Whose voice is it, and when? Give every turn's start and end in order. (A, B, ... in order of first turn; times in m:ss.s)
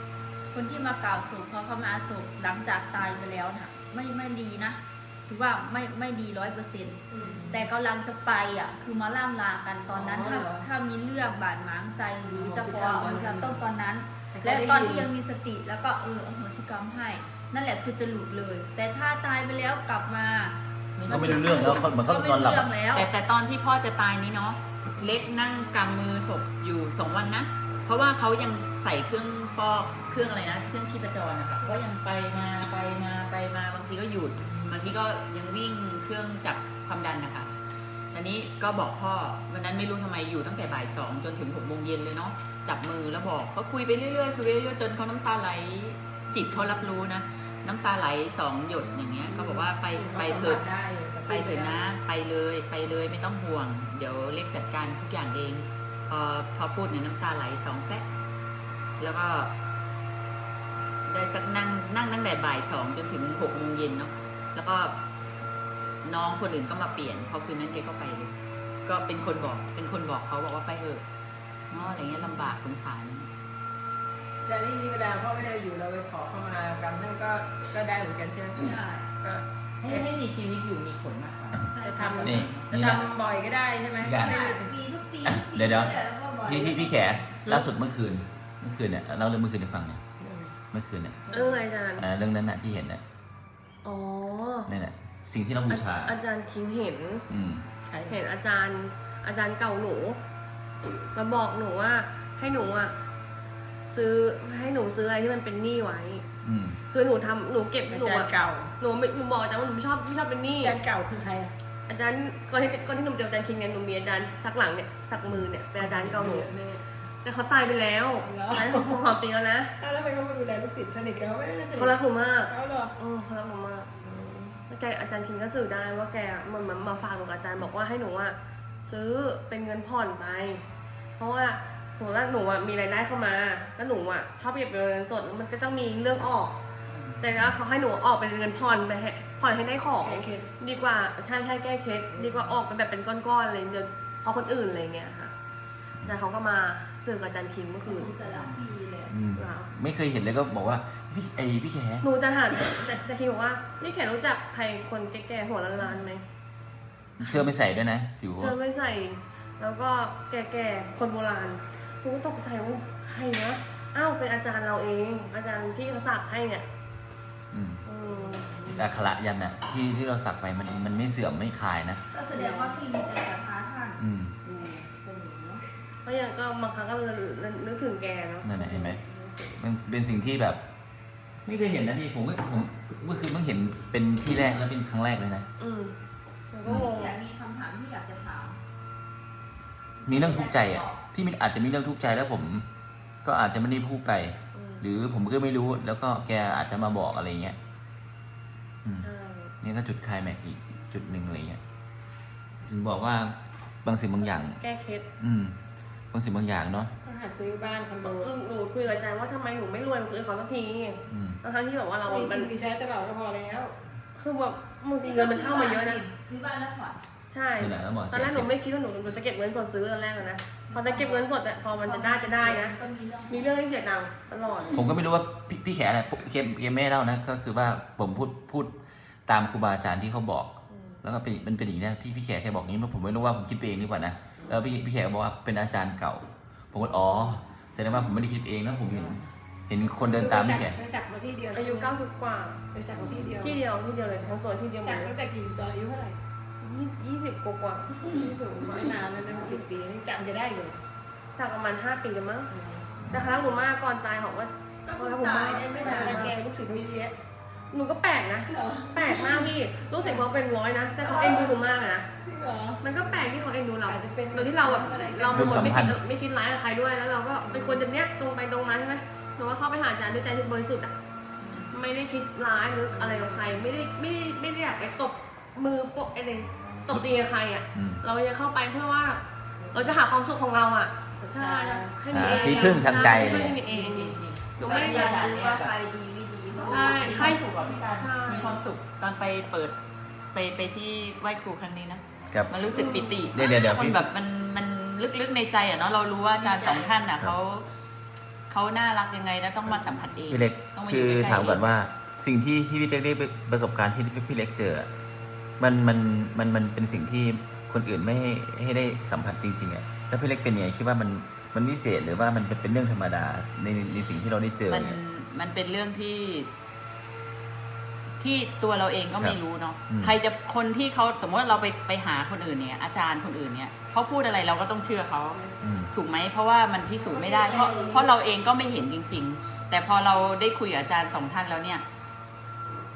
0:00.5-0:23.1 A
0:07.1-0:07.7 B
0:09.9-0:10.7 B
0:12.2-0:13.6 B
0:14.3-0:15.1 B
0:21.0-0:21.9 C
0:21.0-0:22.7 D
0:22.9-0:37.5 C
0:38.1-0:50.6 C
0:49.3-0:51.8 B
0:51.3-0:58.0 C
0:59.0-0:59.5 C
1:01.1-1:04.9 C
1:06.0-1:08.3 C
1:08.8-1:11.0 C
1:11.7-1:13.3 C
1:11.8-1:12.5 B
1:14.4-1:20.1 B
1:18.6-1:19.1 A
1:19.8-1:22.7 C
1:21.8-1:22.4 A
1:21.8-1:24.7 B
1:22.2-1:23.0 D
1:24.0-1:24.5 D
1:24.1-1:27.2 A
1:25.2-1:30.0 D
1:30.2-1:30.5 B
1:30.7-1:31.2 D
1:31.3-1:31.6 B
1:31.3-1:32.0 E
1:32.0-1:33.0 D
1:33.8-1:34.7 E
1:34.7-1:36.2 D
1:35.7-1:37.2 E
1:37.3-1:37.6 D
1:37.9-1:38.2 B
1:38.1-1:40.2 E
1:41.1-1:42.9 E
1:43.9-1:46.2 E
1:46.4-1:46.8 D
1:46.9-1:50.8 E
1:47.9-1:48.7 B
1:50.6-1:51.5 B
1:51.9-1:56.7 E
1:55.8-1:56.8 B
1:57.2-1:59.7 E
1:58.2-1:59.0 B
1:59.8-2:02.9 B
2:01.7-2:04.0 E
2:04.0-2:04.6 B
2:04.7-2:10.6 E
2:11.2-2:16.6 E
2:16.9-2:17.2 C
2:17.2-2:25.3 E
2:20.0-2:20.5 B
2:26.0-2:28.2 E
2:27.8-2:29.2 A
2:28.2-2:28.7 C
2:29.1-2:32.1 D
2:29.3-2:29.7 E
2:32.0-2:36.2 E
2:37.2-2:38.5 D
2:38.4-2:46.6 E
2:47.5-2:47.8 D
2:47.8-2:48.7 E
2:48.3-2:48.7 B
2:48.7-2:52.0 D
2:52.1-2:55.6 A
2:52.4-2:52.6 B
2:54.0-2:54.3 D
2:56.0-2:58.5 E
2:58.4-2:59.0 D
2:58.6-2:59.3 A
2:59.5-3:00.6 D
3:01.4-3:05.4 D
3:05.6-3:05.9 E
3:06.5-3:07.2 E
3:06.6-3:06.9 D
3:06.7-3:08.6 A
3:10.0-3:11.0 A
3:10.0-3:12.6 D
3:13.2-3:17.6 D
3:14.5-3:14.8 E
3:19.0-3:19.5 E
3:19.6-3:21.6 D
3:22.6-3:24.6 D
3:24.6-3:25.1 E
3:25.2-3:25.6 D
3:26.1-3:26.9 D
3:27.0-3:28.3 B
3:28.0-3:32.5 E
3:31.1-3:31.4 D
3:32.0-3:33.7 B
3:34.2-3:36.0 E
3:35.0-3:37.0 A
3:37.3-3:42.7 E
3:37.6-3:38.5 D
3:40.7-3:41.2 A
3:41.8-3:43.5 A
3:43.3-3:44.8 E
3:44.7-3:48.7 D
3:49.3-4:00.8 D
3:50.7-3:51.0 E
4:00.0-4:01.9 B
4:01.5-4:02.6 E
4:02.7-4:03.6 B
4:03.4-4:05.1 E
4:04.8-4:06.2 B
4:06.6-4:08.1 E
4:08.0-4:10.8 B
4:11.3-4:12.5 E
4:12.5-4:12.8 B
4:13.0-4:13.4 D
4:13.1-4:16.3 E
4:14.9-4:16.3 A
4:14.9-4:17.1 B
4:17.7-4:22.1 E
4:18.5-4:20.2 B
4:21.0-4:21.6 B
4:22.2-4:23.2 B
4:22.8-4:30.9 E
4:23.8-4:25.9 B
4:25.3-4:26.0 D
4:27.4-4:27.8 B
4:31.7-4:39.2 E
4:32.9-4:33.4 B
4:37.7-4:38.0 D
4:39.7-4:45.2 E
4:41.3-4:42.4 A
4:42.1-4:43.6 D
4:42.3-4:45.7 C
4:44.6-4:47.8 A
4:46.6-4:49.7 C
4:46.7-4:48.6 E
4:50.3-4:57.7 C
4:52.7-4:53.0 E
4:53.3-4:54.1 D
4:56.4-4:56.9 A
4:58.5-5:01.6 C
5:00.3-5:04.9 D
5:05.6-5:15.0 D
5:14.7-5:16.5 C
5:18.2-5:25.4 C
5:19.9-5:20.1 D
5:25.3-5:25.7 B
5:25.6-5:25.9 D
5:25.9-5:31.8 C
5:26.9-5:28.1 B
5:27.6-5:27.9 E